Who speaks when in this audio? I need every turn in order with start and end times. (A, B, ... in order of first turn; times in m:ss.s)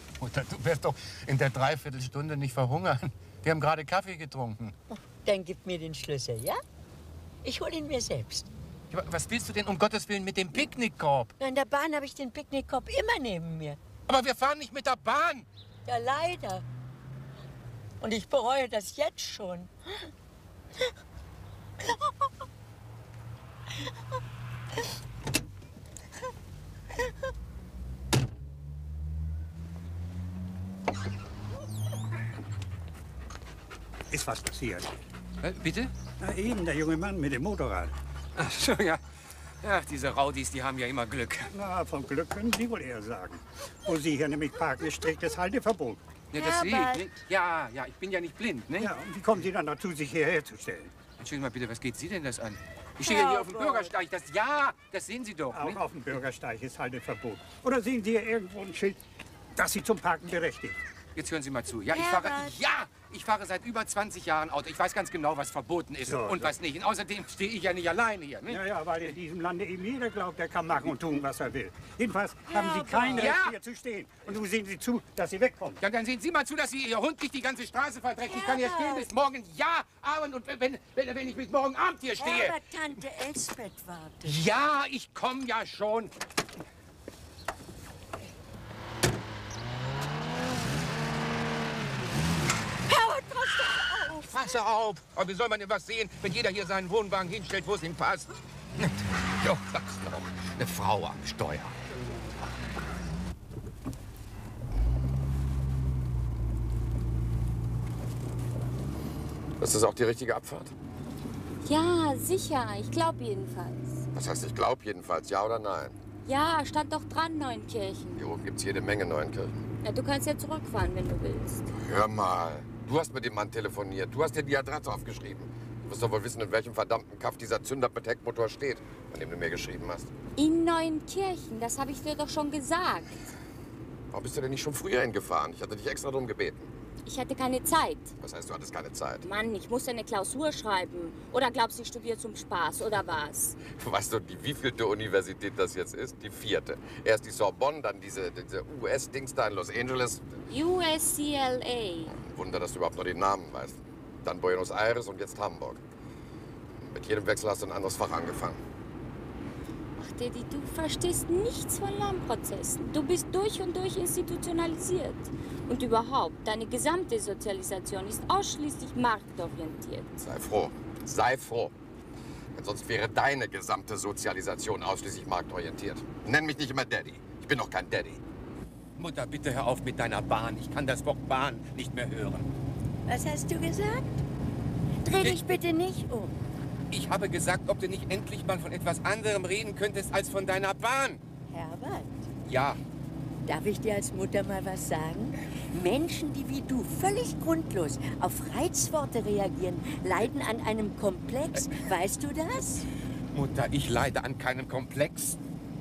0:00.2-0:04.7 A
0:04.9-0:06.6 B
0:07.4-0:08.5 B
0:08.9-0:11.3 A
0:11.4-0:13.8 B
0:14.1-0:15.5 A
0:15.9-0:16.6 B
0:18.0-0:20.1 B
0:21.8-0:22.1 B
0:34.1-0:34.9 C
0:35.4-0:35.9 A
0:36.2-0:37.9 C
0:38.4-0:39.0 A
0:39.6-0:41.5 A
0:41.5-0:46.0 C
0:46.3-0:48.9 A
0:46.4-0:47.1 B
0:48.8-0:50.9 C
0:51.2-0:55.8 A
0:53.1-0:53.6 B
0:55.5-0:59.0 C
0:59.6-1:00.8 C
1:01.2-1:08.6 A
1:01.9-1:02.6 B
1:06.1-1:06.5 C
1:08.5-1:15.8 C
1:12.5-1:13.4 B
1:13.1-1:13.6 A
1:15.8-1:22.6 A
1:18.3-1:19.1 B
1:22.2-1:24.4 B
1:24.2-1:26.1 A
1:32.9-1:34.6 B
1:34.3-1:41.8 A
1:49.6-1:50.7 D
1:51.6-1:54.1 E
1:54.1-1:56.0 D
1:56.2-1:58.2 E
1:58.2-1:59.6 D
1:59.8-2:01.7 E
2:01.7-2:10.1 D
2:10.4-2:13.1 E
2:14.1-2:16.7 D
2:17.0-2:18.2 E
2:18.2-2:19.2 D
2:19.2-2:23.6 E
2:23.6-2:30.2 D
2:30.5-2:32.2 E
2:32.1-2:35.8 D
2:36.8-2:38.6 D
2:40.0-2:50.2 E
2:50.2-2:51.7 D
2:52.6-2:58.2 D
2:59.0-3:02.5 A
3:03.1-3:04.2 B
3:05.0-3:06.4 B
3:06.9-3:11.2 A
3:11.5-3:12.3 B
3:12.5-3:12.8 A
3:13.5-3:22.9 B
3:23.3-3:25.4 A